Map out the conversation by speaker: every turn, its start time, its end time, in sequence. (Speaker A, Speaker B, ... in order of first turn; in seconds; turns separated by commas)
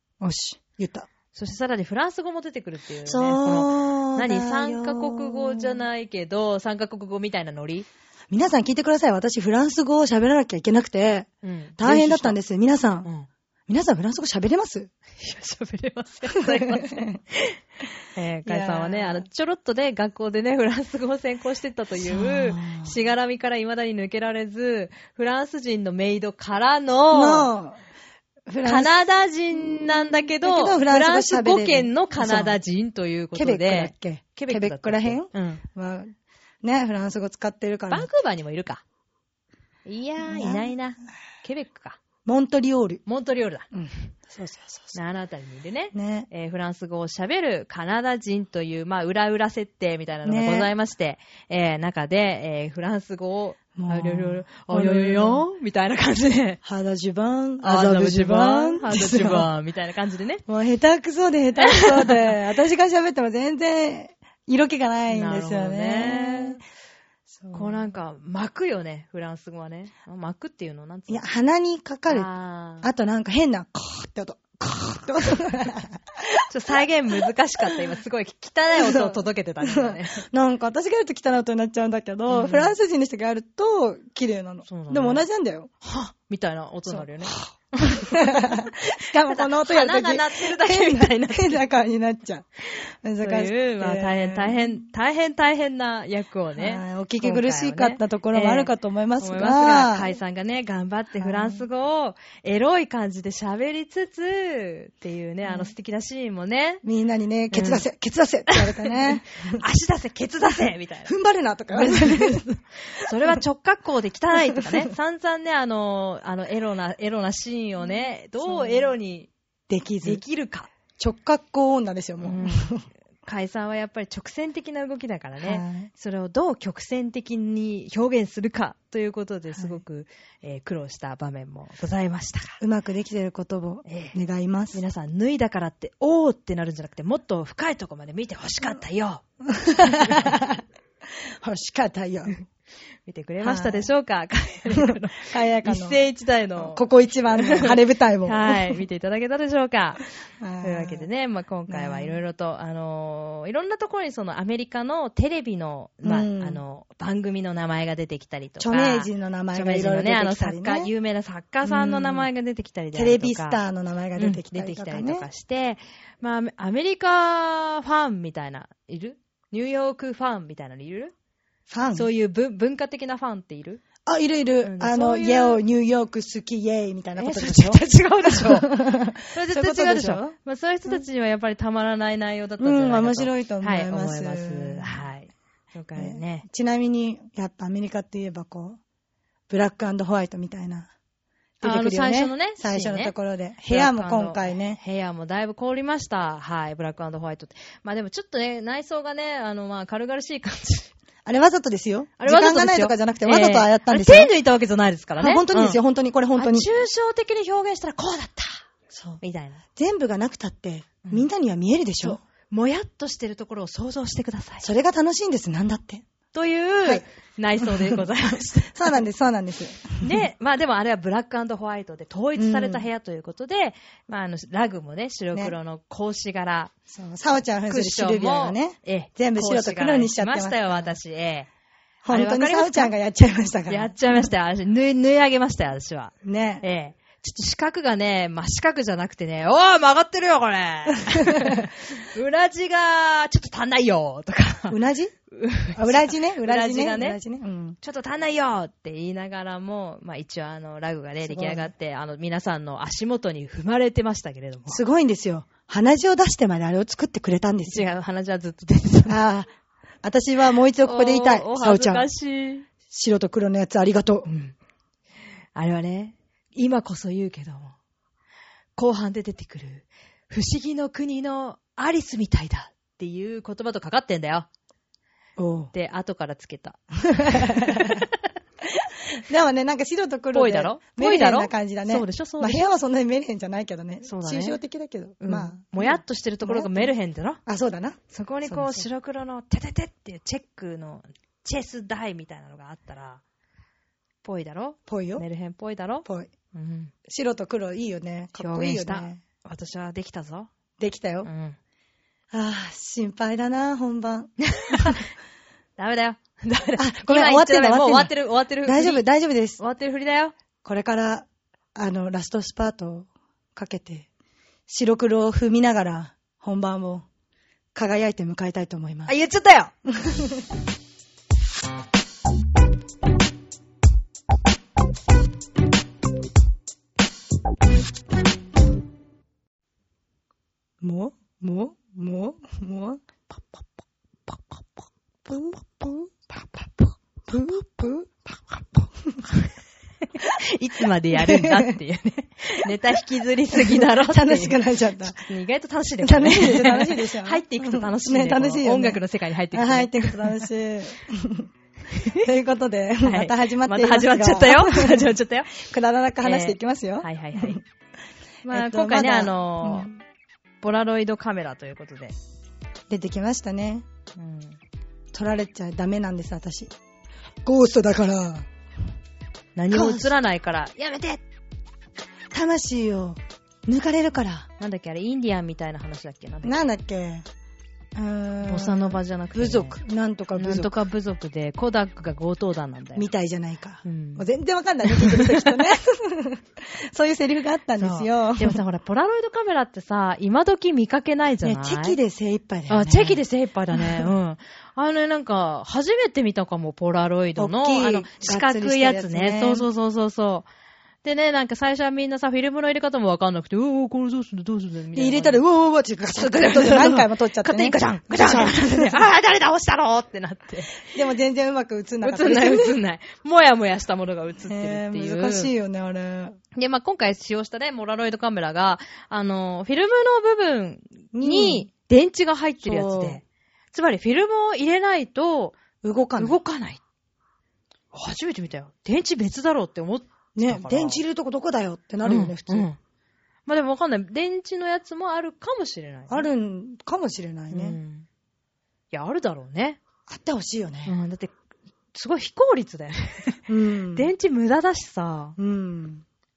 Speaker A: 0.2-1.1, Speaker B: 1.3-7.9, Speaker A: 3.0-5.8, Speaker A: 8.3-13.1, Speaker B: 11.4-12.4, Speaker A: 13.7-14.9, Speaker B: 15.2-17.6, Speaker A: 16.3-17.2, Speaker B: 18.1-27.5, Speaker A: 18.4-19.3, Speaker A: 22.0-23.0, Speaker A: 27.1-27.8, Speaker A: 28.5-29.0, Speaker B: 28.6-35.6, Speaker A: 30.4-32.6, Speaker A: 33.3-38.1, Speaker B: 37.9-38.8, Speaker B: 39.9-42.0, Speaker A: 40.2-40.7, Speaker A: 42.2-43.0, Speaker B: 43.1-43.7, Speaker A: 43.7-45.0, Speaker B: 44.9-56.6, Speaker A: 45.9-46.3, Speaker A: 50.2-50.7, Speaker A: 53.8-55.5, Speaker A: 56.6-59.5, Speaker B: 57.6-60.4, Speaker A: 60.5-66.6, Speaker B: 61.7-62.3, Speaker B: 65.1-66.6, Speaker A: 67.3-67.9, Speaker B: 67.5-71.3, Speaker A: 71.1-72.3, Speaker B: 72.1-72.9, Speaker A: 72.8-76.1, Speaker B: 76.5-80.2, Speaker A: 78.8-85.7, Speaker B: 82.3-82.7, Speaker B: 84.7-85.2, Speaker B: 85.8-88.5, Speaker A: 86.9-94.8, Speaker B: 89.3-91.6, Speaker B: 93.2-106.8, Speaker A: 96.5-100.1, Speaker A: 101.2-101.7, Speaker A: 105.4-105.7, Speaker A: 106.8-109.6, Speaker B: 107.5-107.8, Speaker B: 108.5-111.1, Speaker A: 111.0-112.5, Speaker B: 111.7-119.3, Speaker A: 114.6-114.9, Speaker A: 117.8-119.0, Speaker A: 119.7-120.2, Speaker B: 120.0-120.7, Speaker A: 121.0-122.9, Speaker B: 122.2-122.7, Speaker B: 123.2-132.6, Speaker A: 125.4-125.9, Speaker A: 129.5-129.8, Speaker A: 132.6-134.8, Speaker B: 133.9-134.2, Speaker B: 134.7-139.2, Speaker A: 139.6-140.6, Speaker B: 139.8-140.3, Speaker A: 141.4-142.4, Speaker B: 143.1-150.0, Speaker A: 143.4-143.9, Speaker A: 144.7-146.0, Speaker A: 146.6-148.8, Speaker A: 150.4-151.1, Speaker B: 150.6-163.6, Speaker A: 151.7-152.2, Speaker A: 156.0-156.6, Speaker A: 158.6-160.9, Speaker A: 161.6-162.3, Speaker A: 162.9-165.3, Speaker B: 164.2-171.1, Speaker A: 171.7-172.1, Speaker B: 171.9-173.8, Speaker A: 174.1-180.4, Speaker B: 174.6-175.6, Speaker B: 177.2-186.4, Speaker A: 182.6-185.0, Speaker A: 185.9-188.8, Speaker A: 189.5-190.9, Speaker A: 191.6-194.8, Speaker B: 191.6-200.9, Speaker A: 201.2-204.3, Speaker B: 202.2-205.8, Speaker A: 205.2-206.7, Speaker B: 206.4-208.7, Speaker A: 208.9-209.2, Speaker B: 209.2-209.6, Speaker A: 209.8-212.2, Speaker B: 212.0-214.7, Speaker A: 214.6-216.1, Speaker B: 216.3-219.0, Speaker A: 217.6-218.1, Speaker A: 218.7-220.2, Speaker B: 220.0-226.7, Speaker A: 222.3-222.9, Speaker A: 226.9-231.0, Speaker B: 227.7-231.5, Speaker A: 232.0-234.3, Speaker B: 232.1-232.9, Speaker B: 233.7-244.8, Speaker A: 236.2-236.6, Speaker A: 241.3-241.7, Speaker A: 244.7-245.1, Speaker B: 245.3-247.2, Speaker A: 245.8-247.8, Speaker B: 247.8-254.8, Speaker A: 251.2-251.7, Speaker A: 254.7-257.9, Speaker B: 257.7-259.2, Speaker A: 259.1-259.5, Speaker A: 260.0-262.1, Speaker B: 260.8-262.7, Speaker A: 262.9-264.3, Speaker B: 264.3-264.6, Speaker B: 265.6-267.8, Speaker B: 268.8-274.5, Speaker A: 275.4-275.7, Speaker B: 275.7-278.1, Speaker A: 277.1-278.1, Speaker A: 279.3-286.9, Speaker B: 280.3-282.6, Speaker B: 284.1-284.6, Speaker B: 285.2-287.4, Speaker A: 287.5-288.9, Speaker B: 288.1-293.2, Speaker B: 294.2-296.9, Speaker A: 294.9-295.3, Speaker A: 296.1-296.3, Speaker A: 297.1-299.2, Speaker B: 298.4-300.5, Speaker A: 300.8-301.3, Speaker B: 301.2-301.6, Speaker A: 302.3-305.0, Speaker B: 304.4-305.1, Speaker B: 305.8-309.0, Speaker A: 306.8-309.6, Speaker B: 309.6-310.3, Speaker A: 310.6-314.1, Speaker A: 314.7-317.1, Speaker A: 317.8-319.1, Speaker B: 319.1-319.7, Speaker A: 319.9-320.4, Speaker A: 330.8-333.0, Speaker A: 335.2-339.2, Speaker B: 340.4-350.5, Speaker A: 341.1-341.7, Speaker A: 343.6-345.2, Speaker A: 346.0-349.0, Speaker A: 349.5-351.5, Speaker B: 351.9-352.2, Speaker A: 352.2-357.6, Speaker B: 353.0-355.6, Speaker B: 356.2-357.6, Speaker B: 358.4-359.9, Speaker A: 358.5-360.0, Speaker B: 360.6-362.1, Speaker A: 362.9-363.9, Speaker B: 364.2-364.6, Speaker A: 365.1-366.7, Speaker A: 367.4-368.5, Speaker B: 369.6-371.2, Speaker A: 369.7-370.1, Speaker A: 372.3-374.5, Speaker B: 374.6-376.6, Speaker A: 376.4-377.3, Speaker A: 377.9-380.7, Speaker B: 378.4-379.8, Speaker B: 380.4-383.1, Speaker A: 382.9-388.6, Speaker B: 383.8-384.2, Speaker B: 384.8-385.5, Speaker B: 387.8-392.0, Speaker A: 391.4-393.2, Speaker B: 392.7-400.5, Speaker A: 393.7-394.1, Speaker A: 397.4-399.7, Speaker B: 401.0-405.4, Speaker A: 404.9-408.9, Speaker B: 406.2-410.9, Speaker A: 410.9-412.8, Speaker B: 412.0-415.5, Speaker A: 414.5-416.4, Speaker B: 416.6-425.6, Speaker A: 421.1-421.7, Speaker A: 422.6-423.2, Speaker A: 425.8-426.4, Speaker B: 426.2-426.8, Speaker B: 427.9-431.0, Speaker A: 430.4-432.7, Speaker B: 432.0-432.8, Speaker B: 433.5-436.3, Speaker A: 436.1-437.8, Speaker B: 437.5-438.1, Speaker B: 438.9-439.8, Speaker A: 440.1-440.9, Speaker B: 440.9-441.3, Speaker B: 441.9-443.4, Speaker A: 443.5-444.1, Speaker B: 443.9-445.4, Speaker A: 445.4-446.0